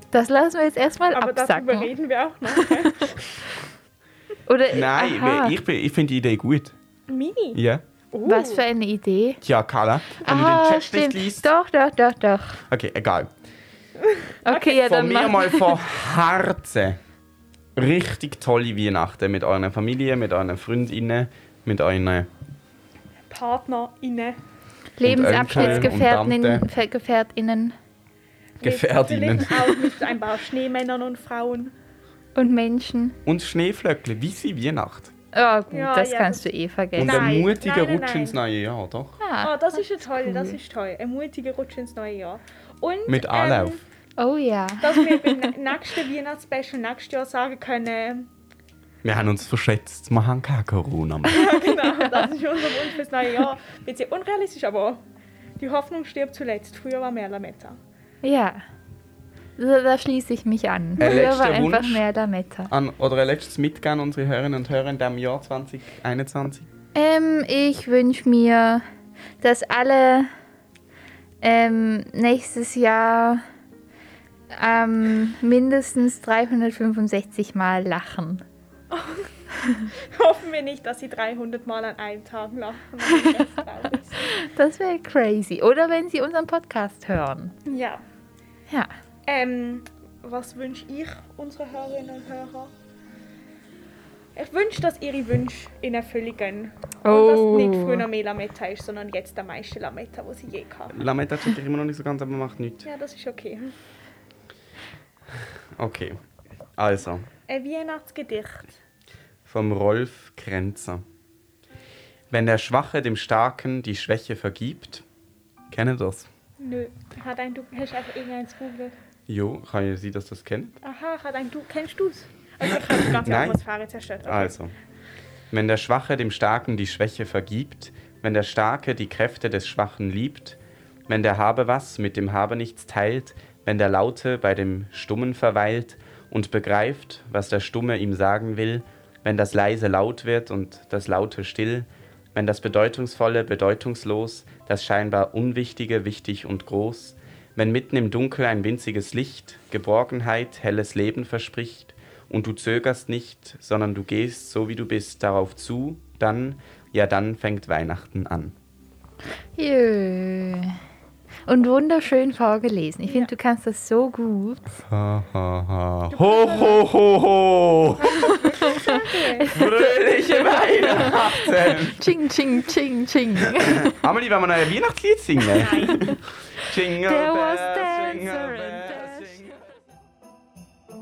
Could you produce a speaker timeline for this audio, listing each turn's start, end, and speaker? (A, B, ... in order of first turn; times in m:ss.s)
0:00.1-0:01.9 A
0:01.1-0:03.1 B
0:02.5-0:03.2 A
0:04.5-0:05.6 A
0:04.7-0:06.7 C
0:07.1-0:07.6 B
0:07.5-0:07.8 C
0:08.1-0:08.6 B
0:08.2-0:09.4 A
0:09.4-0:11.4 C
0:10.2-0:12.6 A
0:12.7-0:13.3 C
0:14.0-0:14.7 B
0:14.4-0:15.7 A
0:14.8-0:17.0 C
0:17.8-0:22.3 C
0:23.3-0:24.4 B
0:25.0-0:27.7 A
0:25.0-0:26.6 C
0:25.3-0:25.9 B
0:28.6-0:31.7 B
0:28.6-0:30.0 C
0:32.4-0:33.2 A
0:33.2-0:35.1 C
0:35.3-0:37.4 A
0:35.7-0:36.5 B
0:37.0-0:38.4 B
0:37.0-0:39.2 C
0:39.2-0:40.6 A
0:39.4-0:43.8 B
0:43.1-0:43.8 C
0:44.2-0:45.5 A
0:44.8-0:48.3 B
0:49.0-0:51.5 C
0:51.3-0:55.0 B
0:51.7-0:52.3 A
0:55.6-0:57.8 B
0:58.2-0:58.6 A
0:59.6-1:02.7 A
1:01.0-1:02.0 C
1:01.0-1:01.3 B
1:02.7-1:06.7 C
1:06.9-1:08.8 A
1:09.4-1:10.3 A
1:11.4-1:13.4 A
1:14.5-1:18.4 A
1:18.9-1:19.3 B
1:20.0-1:24.3 B
1:24.2-1:27.5 A
1:27.6-1:28.0 B
1:29.2-1:32.7 B
1:34.3-1:41.0 B
1:37.0-1:38.0 A
1:40.9-1:42.8 C
1:42.8-1:43.7 B
1:45.8-1:46.2 C
1:46.8-1:47.3 C
1:47.5-1:48.7 B
1:49.4-1:51.0 C
1:52.3-1:55.0 C
1:55.7-1:56.3 C
1:56.6-1:59.0 B
1:59.3-2:00.7 C
2:00.8-2:04.5 B
2:02.9-2:03.6 C
2:04.2-2:04.7 C
2:05.5-2:38.5 C
2:39.6-2:40.8 A
2:41.5-2:44.7 A
2:44.9-2:48.9 C
2:46.1-2:46.8 B
2:48.0-2:49.5 B
2:48.3-2:53.9 A
2:49.5-2:52.1 C
2:53.6-2:59.5 C
2:55.5-2:56.1 A
2:55.6-2:56.0 B
2:57.0-2:59.5 A